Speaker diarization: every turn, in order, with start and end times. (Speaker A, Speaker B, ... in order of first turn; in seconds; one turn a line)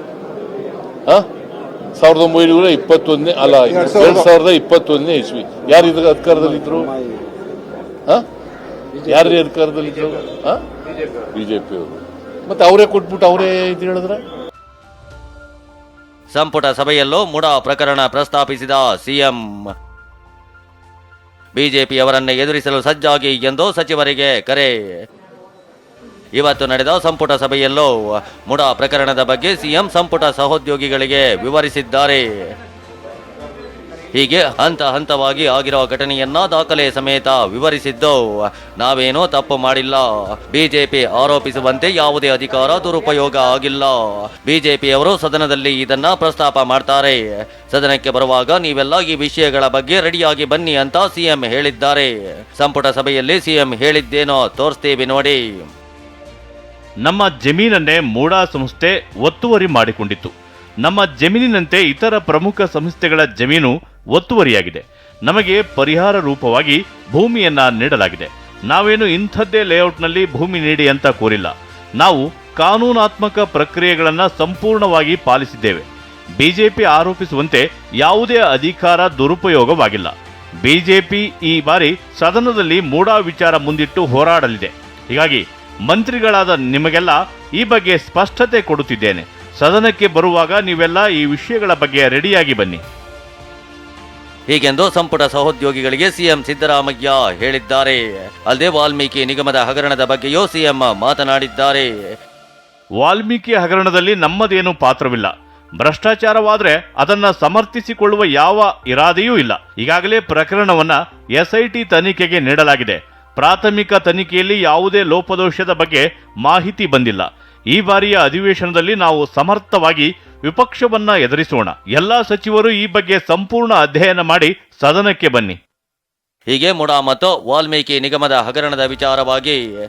Speaker A: 1.9-6.9
Speaker A: 9.0-10.6
Speaker A: 11.3-14.2
Speaker B: 16.3-19.6
Speaker B: 21.5-24.8
Speaker B: 26.3-32.5
Speaker B: 34.1-55.7
Speaker C: 57.0-75.8
Speaker C: 76.4-92.8
Speaker B: 94.5-101.9
Speaker C: 103.0-125.6
Speaker B: 126.5-129.6